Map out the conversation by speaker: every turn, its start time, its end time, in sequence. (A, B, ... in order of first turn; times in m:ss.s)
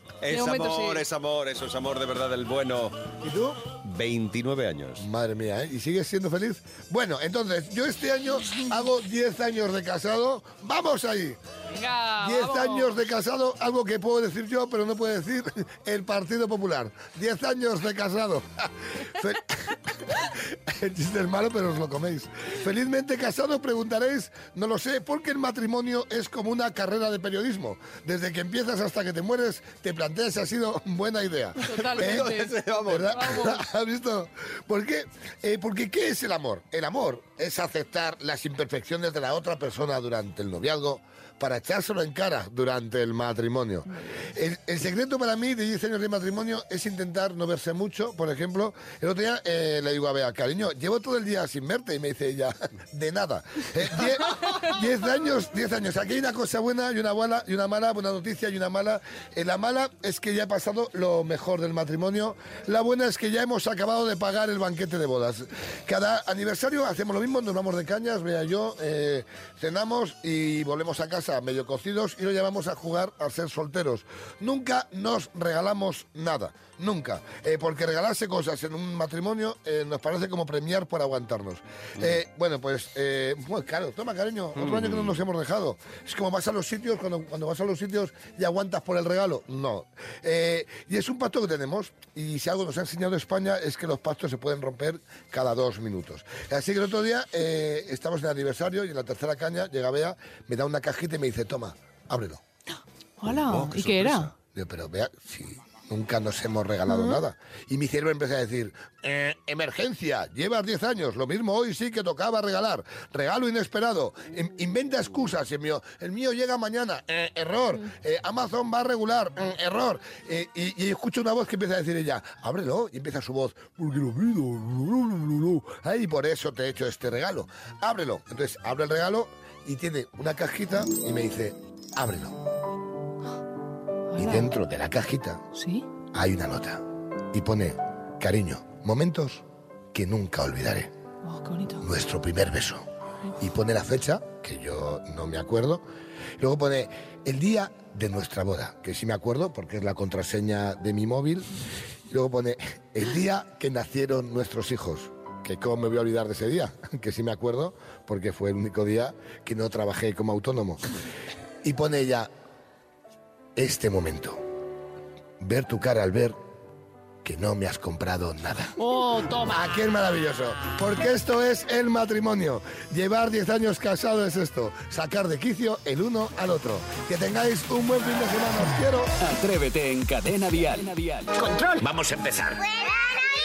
0:00.2-0:03.0 A
0:00.3-0:01.0 B
0:03.2-0:03.6 C
0:03.8-0:05.0 A
0:05.0-0:11.4 C
0:11.7-0:13.0 B
0:12.2-1:42.4 C
0:31.6-0:32.5 B
0:31.8-0:33.2 A
0:33.1-0:33.6 B
1:24.6-1:25.1 A
1:43.2-1:44.3 B
1:43.3-1:44.3 A
1:44.5-2:12.4 C
2:14.1-2:14.5 B
2:14.2-2:15.4 C
2:15.6-2:15.8 B
2:16.1-2:20.9 C
2:21.3-2:21.8 B
2:21.8-2:22.9 C
2:23.4-2:25.8 C
2:26.4-2:31.5 C
2:32.1-2:40.8 C
2:41.6-2:42.3 C
2:43.6-2:44.4 C
2:45.4-2:46.4 C
2:47.2-2:59.1 C
2:59.2-3:01.3 D